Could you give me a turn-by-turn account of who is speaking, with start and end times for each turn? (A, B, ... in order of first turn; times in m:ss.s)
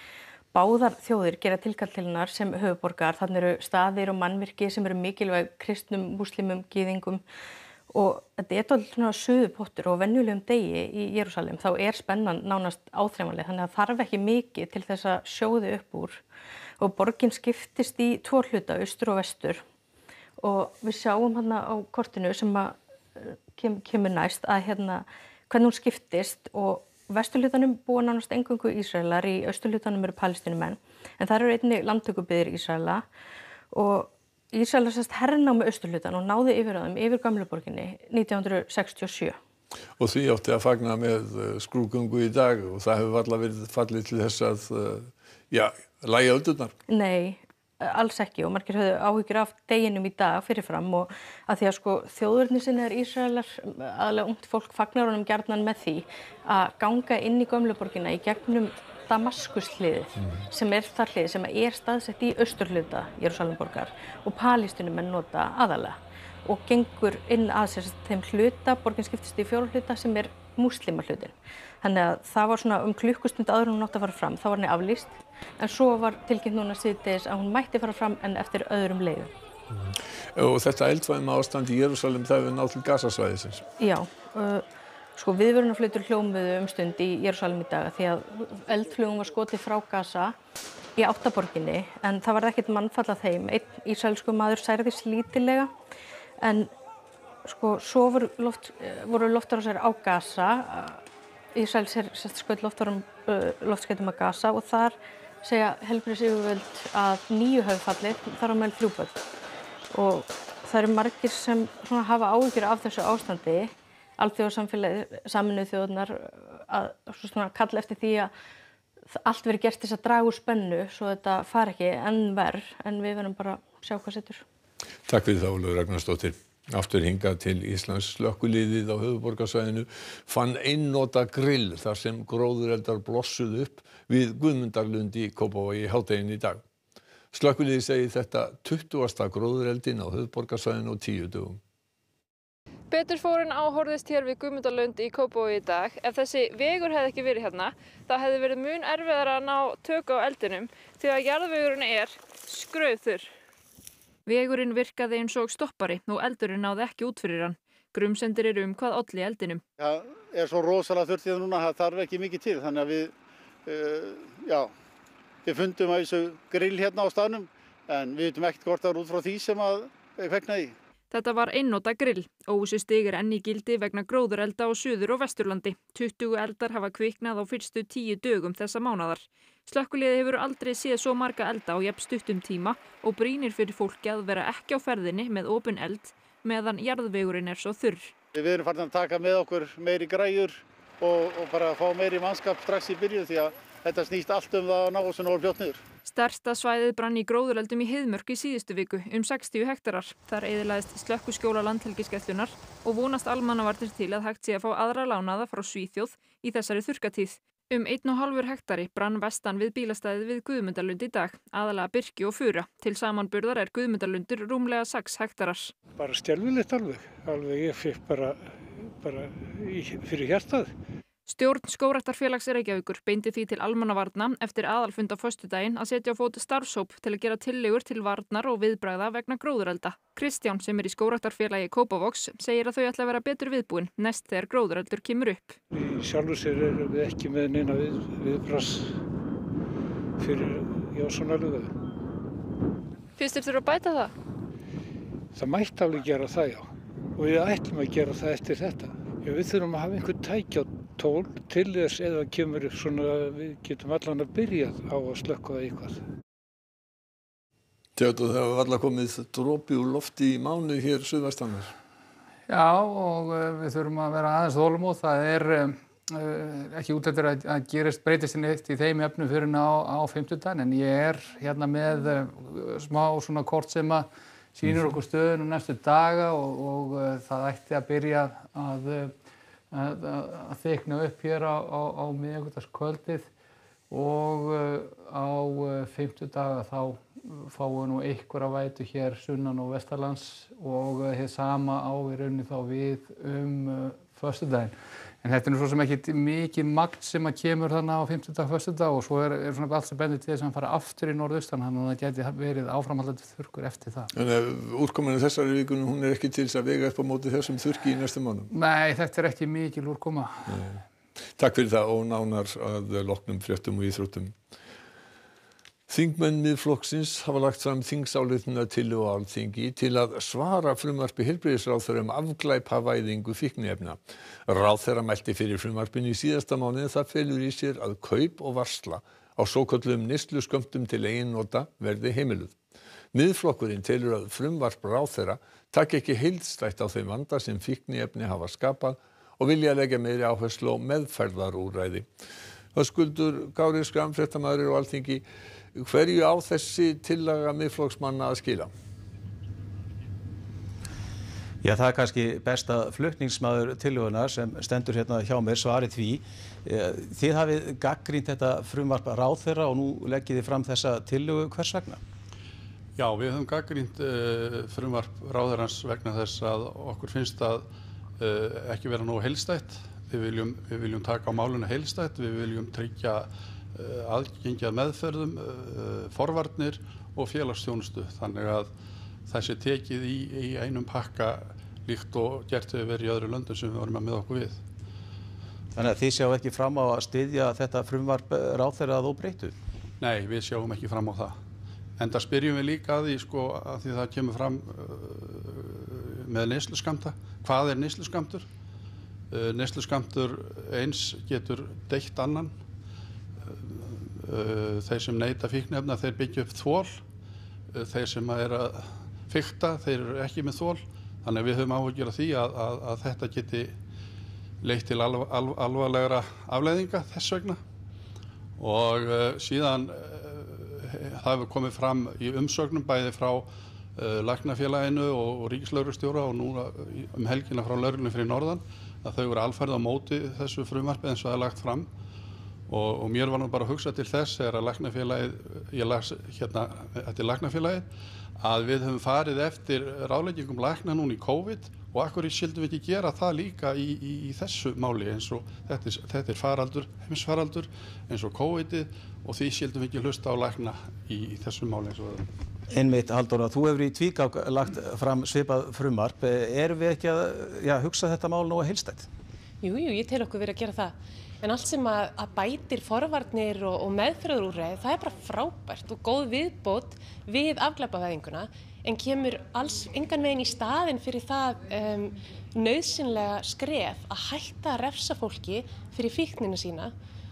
0:00.5-0:07.2 A
0:07.9-0:16.2 A
0:16.8-0:19.6 A
0:20.4-0:33.1 A
0:33.7-0:39.4 A
0:40.0-0:46.7 B
0:46.9-1:19.3 A
1:19.7-1:23.6 B
1:23.8-1:24.6 A
1:25.2-1:30.4 A
1:31.0-1:35.7 A
1:36.4-1:36.7 A
1:37.4-1:41.0 A
1:41.6-1:49.2 A
1:49.9-1:58.3 A
1:59.1-2:04.4 A
2:05.1-2:16.6 B
2:17.3-2:21.6 B
2:22.9-2:33.3 C
2:34.3-2:39.6 C
2:39.8-2:43.1 D
2:43.7-2:44.7 D
2:45.4-2:50.8 D
2:51.1-3:08.1 C
3:08.3-3:15.8 D
3:16.0-3:35.7 C
3:36.0-3:40.7 E
3:41.3-3:55.6 C
3:55.7-3:59.0 E
4:00.2-4:01.7 E
4:03.2-4:04.1 C
4:05.3-4:16.0 E
4:18.0-4:21.7 B
4:22.5-4:39.1 F
4:39.7-4:43.3 F
4:43.9-5:04.1 F
5:04.1-5:08.5 B
5:08.5-5:10.6 F
5:10.5-5:10.8 B
5:11.4-5:14.4 B
5:15.9-5:32.6 B
5:33.1-5:42.1 B
5:42.7-5:48.7 B
5:51.6-6:02.0 G
6:03.0-6:18.7 H
6:19.3-6:24.6 H
6:25.8-6:29.6 G
6:30.0-6:31.4 H
6:32.0-6:38.5 H
6:39.3-6:42.6 H
6:43.5-6:47.0 H
6:47.7-6:53.8 H
6:54.6-6:57.6 H
6:58.6-7:11.9 H
7:12.7-7:32.3 H
7:32.7-7:39.1 G
7:39.6-7:56.9 I